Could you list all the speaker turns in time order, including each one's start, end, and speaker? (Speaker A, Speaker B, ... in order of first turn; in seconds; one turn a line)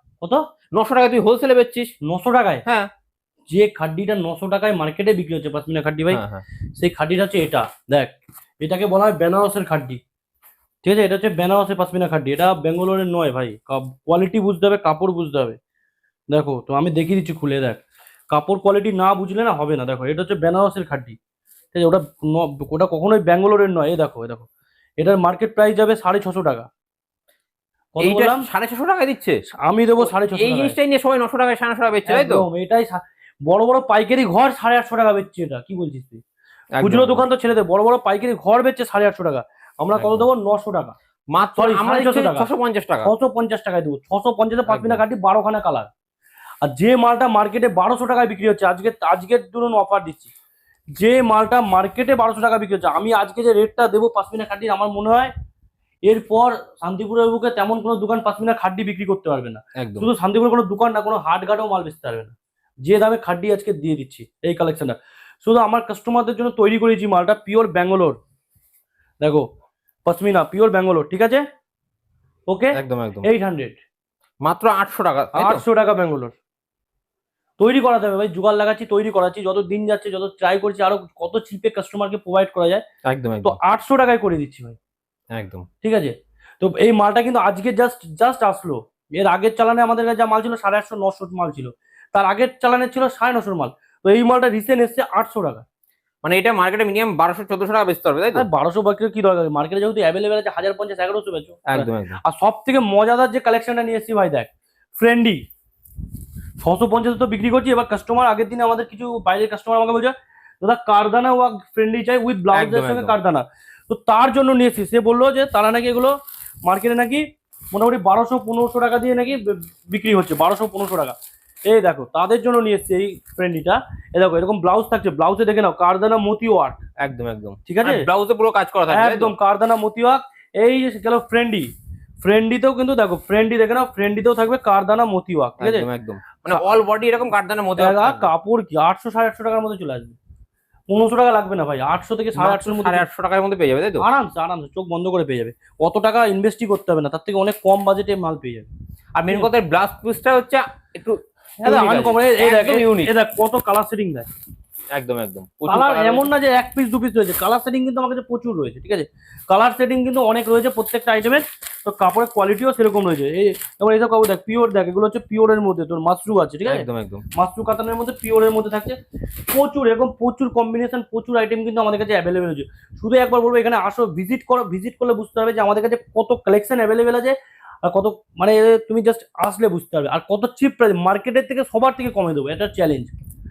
Speaker A: 0.7-1.9
Speaker B: 2.0-2.6
Speaker B: 3.5-6.2
Speaker A: 6.1-6.4
Speaker B: 6.8-10.0
Speaker B: 10.8-15.6
Speaker B: 16.3-21.2
Speaker B: 21.7-24.5
Speaker B: 25.0-26.7
Speaker B: 27.9-28.4
Speaker A: 28.0-29.4
Speaker B: 29.6-30.8
Speaker A: 30.0-32.4
Speaker B: 32.1-36.2
Speaker A: 36.8-37.2
Speaker B: 36.8-40.9
Speaker A: 40.0-40.2
Speaker A: 41.3-43.1
Speaker B: 41.6-42.5
Speaker B: 43.0-45.9
Speaker A: 44.7-45.0
Speaker B: 46.6-50.3
Speaker B: 51.0-55.3
Speaker B: 56.0-62.3
Speaker A: 59.8-60.1
Speaker B: 62.8-68.2
Speaker B: 70.0-71.4
Speaker B: 72.5-73.8
Speaker A: 72.7-73.3
Speaker A: 74.4-75.6
Speaker B: 75.3-76.3
Speaker B: 77.6-82.8
Speaker A: 83.0-83.6
Speaker B: 83.4-84.8
Speaker A: 85.3-85.7
Speaker B: 85.8-95.6
Speaker A: 96.2-98.5
Speaker B: 98.3-105.4
Speaker A: 101.7-102.2
Speaker B: 106.6-116.1
Speaker A: 112.5-113.1
Speaker B: 116.7-121.2
Speaker B: 121.7-126.8
Speaker A: 127.0-129.3
Speaker B: 127.7-128.1
Speaker B: 128.9-131.7
Speaker B: 132.2-135.8
Speaker A: 135.6-138.3
Speaker B: 137.8-140.2
Speaker B: 140.9-143.1
Speaker A: 142.3-144.0
Speaker B: 144.0-148.7
Speaker A: 149.2-153.1
Speaker B: 151.6-154.3
Speaker A: 154.9-156.3
Speaker B: 155.7-169.0
Speaker A: 166.6-167.2
Speaker B: 169.5-183.1